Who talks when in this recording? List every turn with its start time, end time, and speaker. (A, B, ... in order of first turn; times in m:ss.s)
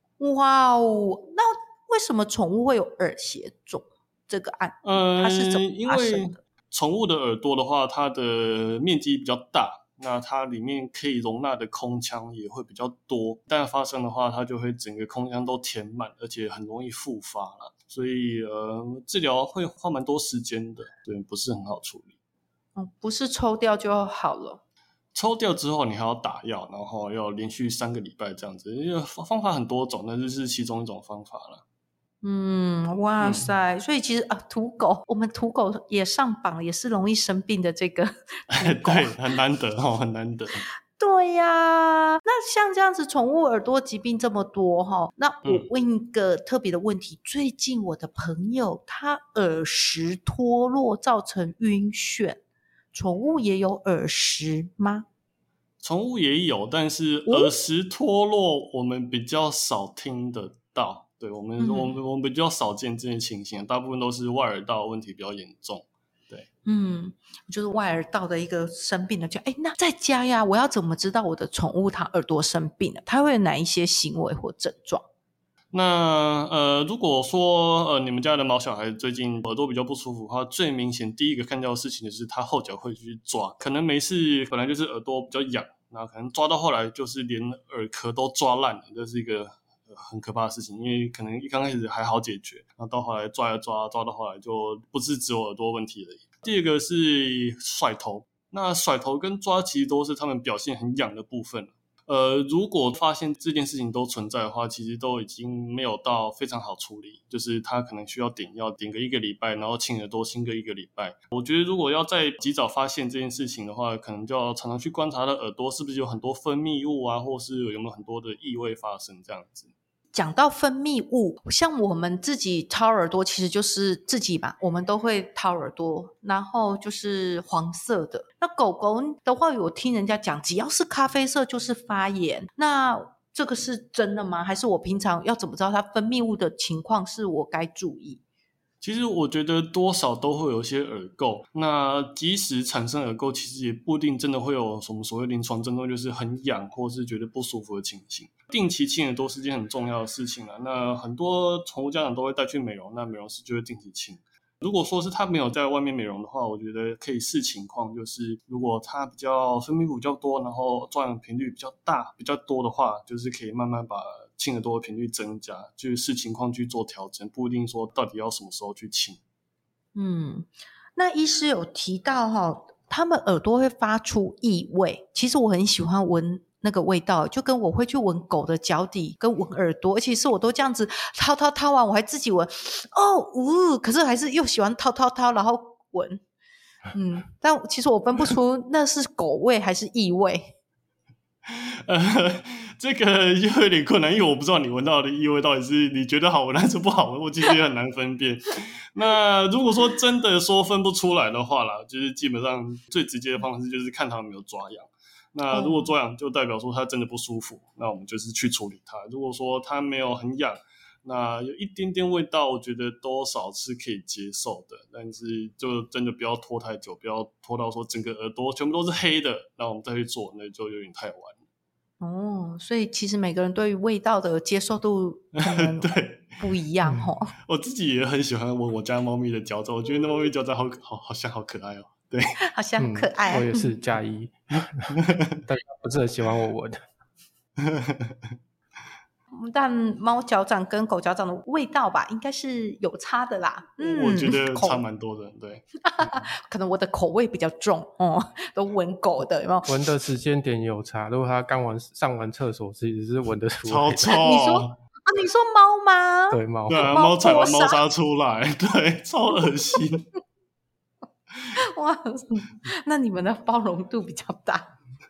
0:00.2-0:06.4 A
0:04.8-0:22.1 B
0:22.8-0:24.6 A
0:25.1-0:31.6 B
0:32.2-0:39.1 A
0:33.2-0:33.5 B
0:38.5-0:40.6 B
0:41.0-0:52.4 A
0:52.9-0:55.0 A
0:55.8-1:06.4 B
1:01.6-1:02.0 A
1:06.6-1:15.0 A
1:15.7-1:59.7 B
2:00.1-2:18.2 A
2:18.8-2:49.2 B
2:49.9-3:06.2 A
3:06.9-3:10.5 A
3:11.4-3:41.4 B
3:25.5-3:25.9 A
3:42.0-3:47.3 A
3:45.3-3:46.4 B
3:47.4-3:52.3 B
3:52.4-3:53.7 A
3:52.8-3:56.8 C
3:54.9-3:55.4 B
3:57.6-3:58.3 B
3:59.3-4:04.8 A
4:03.8-4:05.6 B
4:05.8-4:09.7 A
4:09.6-4:14.1 C
4:13.6-4:14.7 B
4:14.1-4:17.8 A
4:16.3-4:16.9 C
4:16.7-4:20.0 B
4:21.6-4:24.7 A